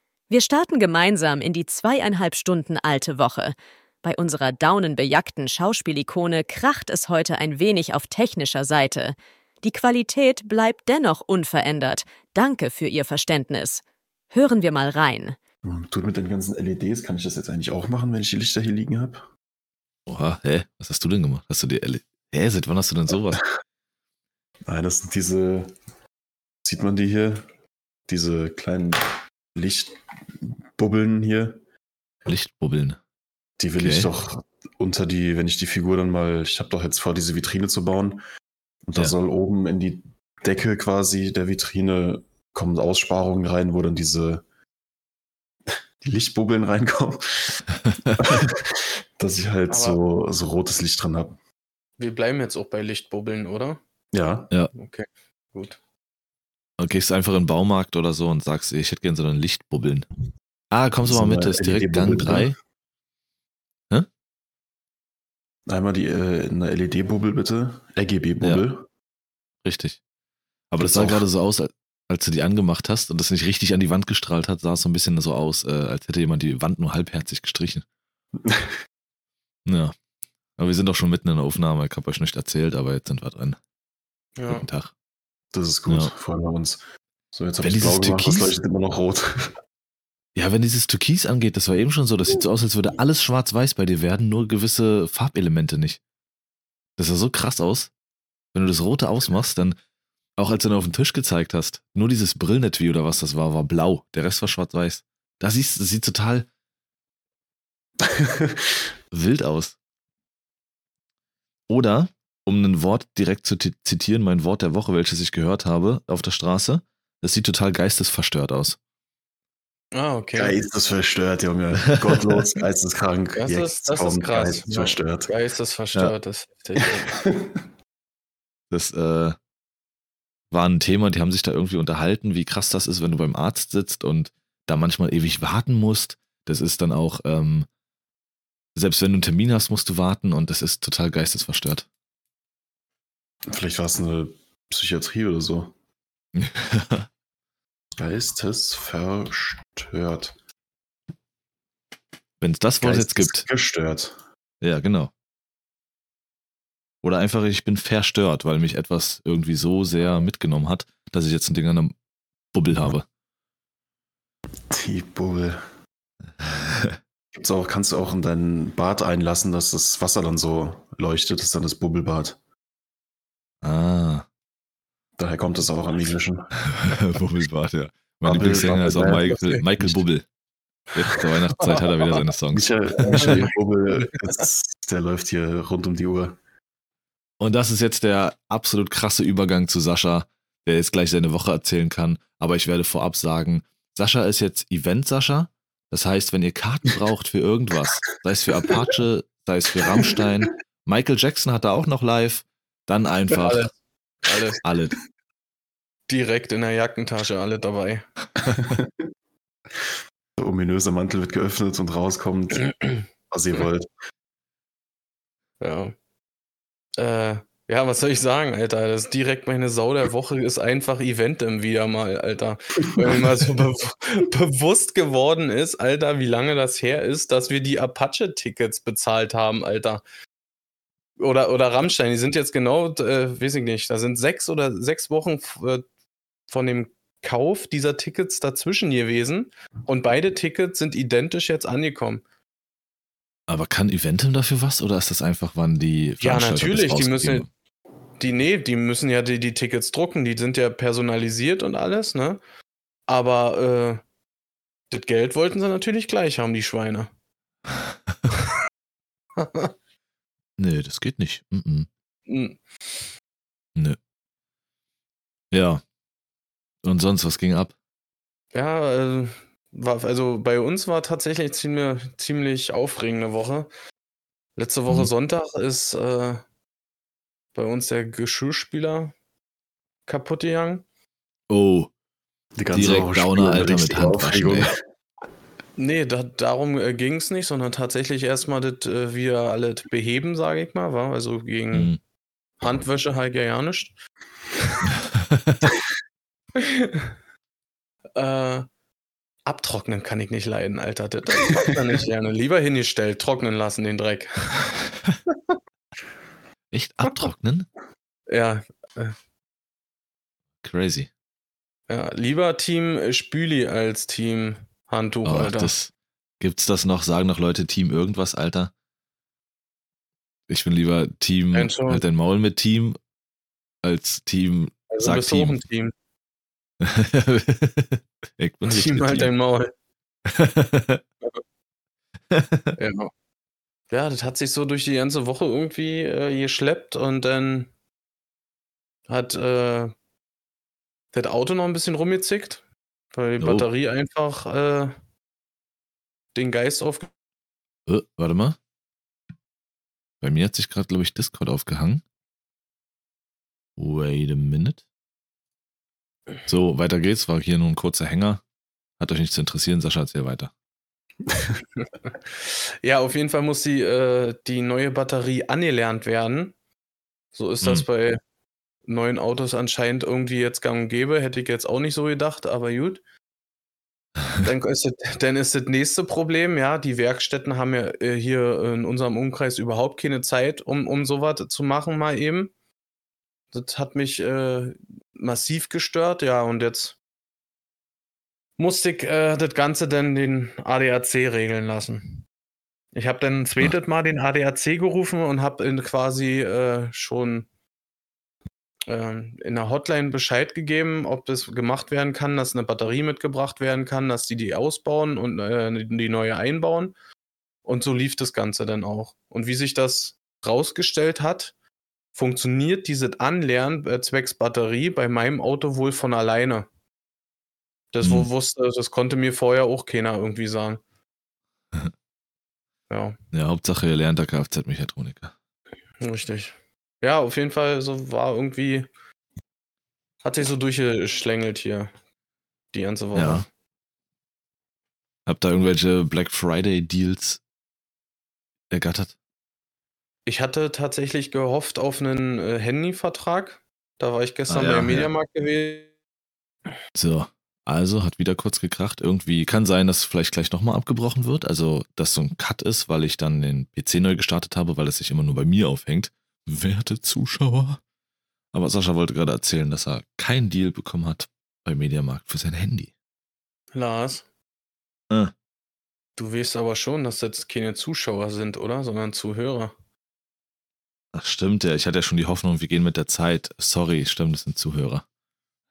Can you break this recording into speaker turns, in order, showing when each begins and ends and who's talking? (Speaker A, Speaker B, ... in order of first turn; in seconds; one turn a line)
Speaker A: 0.3-15.3
Speaker B: 15.6-19.2
Speaker C: 20.1-23.4
Speaker B: 24.6-25.7
Speaker B: 26.6-27.4
Speaker B: 28.1-31.6
Speaker C: 32.3-33.0
Speaker B: 33.6-38.2
Speaker C: 33.8-34.1
Speaker B: 38.9-44.4
Speaker B: 45.7-47.6
Speaker C: 47.8-48.4
Speaker B: 48.2-51.4
Speaker D: 49.7-50.0
Speaker D: 52.0-53.8
Speaker B: 54.1-54.5
Speaker D: 54.7-55.8
Speaker C: 56.8-60.1
Speaker C: 60.7-62.5
Speaker B: 61.0-62.5
Speaker B: 65.7-68.9
Speaker C: 69.6-70.0
Speaker C: 70.7-77.8
Speaker B: 70.8-71.2
Speaker B: 78.4-78.8
Speaker C: 79.7-79.9
Speaker C: 80.6-83.6
Speaker D: 84.4-84.6
Speaker C: 84.5-84.9
Speaker B: 85.5-86.8
Speaker B: 87.3-89.5
Speaker C: 87.6-88.5
Speaker C: 90.3-96.0
Speaker C: 97.0-97.9
Speaker C: 98.5-99.8
Speaker C: 100.4-106.5
Speaker B: 108.0-108.9
Speaker C: 109.1-109.8
Speaker C: 111.7-118.8
Speaker D: 119.9-120.5
Speaker B: 120.3-125.3
Speaker C: 121.9-122.2
Speaker D: 123.3-127.2
Speaker B: 127.1-127.6
Speaker C: 128.7-129.4
Speaker C: 130.5-137.7
Speaker C: 138.7-141.8
Speaker B: 143.4-145.7
Speaker C: 146.3-147.1
Speaker B: 148.0-150.3
Speaker C: 152.4-153.5
Speaker B: 152.8-154.2
Speaker C: 154.6-155.1
Speaker C: 157.0-161.9
Speaker C: 162.5-163.1
Speaker B: 164.7-165.6
Speaker C: 166.4-167.0
Speaker B: 167.3-172.4
Speaker C: 173.6-174.2
Speaker B: 175.2-176.5
Speaker C: 176.6-180.2
Speaker B: 178.2-180.0
Speaker D: 179.3-179.6
Speaker C: 180.9-183.4
Speaker D: 181.6-181.8
Speaker B: 182.5-186.4
Speaker D: 183.0-183.5
Speaker C: 187.4-203.7
Speaker B: 199.8-200.1
Speaker D: 203.3-204.6
Speaker C: 204.6-205.0
Speaker D: 206.1-208.0
Speaker B: 208.6-209.0
Speaker B: 210.4-212.7
Speaker D: 212.6-213.1
Speaker B: 213.3-213.9
Speaker D: 215.6-215.9
Speaker D: 217.0-230.0
Speaker D: 231.2-235.8
Speaker D: 236.5-242.2
Speaker C: 243.5-247.5
Speaker D: 246.2-247.4
Speaker D: 248.2-252.4
Speaker D: 253.1-254.0
Speaker D: 254.9-257.1
Speaker D: 259.4-259.7
Speaker C: 260.6-261.9
Speaker D: 262.3-263.0
Speaker C: 265.5-265.8
Speaker C: 266.8-267.7
Speaker D: 268.5-273.7
Speaker D: 274.6-276.4
Speaker D: 277.5-279.1
Speaker D: 280.1-280.8
Speaker C: 281.5-281.9
Speaker B: 282.6-284.8
Speaker C: 282.7-284.7
Speaker D: 285.8-291.9
Speaker C: 291.7-292.0
Speaker D: 292.6-293.9
Speaker D: 294.6-294.9
Speaker D: 296.6-297.1
Speaker D: 298.1-298.7
Speaker D: 299.4-304.7
Speaker C: 306.7-307.7
Speaker D: 308.3-309.1
Speaker C: 310.6-311.1
Speaker D: 311.9-315.7
Speaker C: 315.2-318.7
Speaker C: 320.5-323.0
Speaker D: 321.5-322.0
Speaker C: 323.8-325.6
Speaker D: 324.9-325.9
Speaker C: 326.8-329.3
Speaker D: 328.7-329.7
Speaker C: 330.3-331.0
Speaker C: 332.3-332.8
Speaker D: 332.8-333.1
Speaker D: 333.9-337.7
Speaker D: 339.1-339.9
Speaker D: 341.1-342.6
Speaker D: 343.1-344.9
Speaker C: 343.4-343.7
Speaker D: 346.3-347.1
Speaker C: 347.9-348.6
Speaker C: 350.2-352.0
Speaker C: 353.8-354.8
Speaker C: 356.5-358.4
Speaker C: 359.0-360.5
Speaker B: 361.3-361.5
Speaker D: 362.1-366.5
Speaker D: 367.3-368.2
Speaker D: 368.9-373.0
Speaker D: 374.4-382.5
Speaker D: 383.5-386.9
Speaker D: 388.6-392.2
Speaker D: 392.9-397.4
Speaker D: 398.9-406.9
Speaker D: 407.6-411.5
Speaker D: 412.1-416.7
Speaker D: 417.9-420.8
Speaker C: 418.0-418.3
Speaker D: 422.9-423.2
Speaker C: 423.3-425.3
Speaker D: 426.0-428.9
Speaker D: 430.2-431.9
Speaker D: 432.7-433.5
Speaker C: 433.1-433.4
Speaker C: 435.2-437.4
Speaker C: 438.7-439.1
Speaker D: 440.2-445.9
Speaker C: 444.5-445.1
Speaker C: 446.9-457.8
Speaker C: 458.5-462.9
Speaker D: 463.7-464.2
Speaker D: 466.2-469.7
Speaker C: 471.1-475.0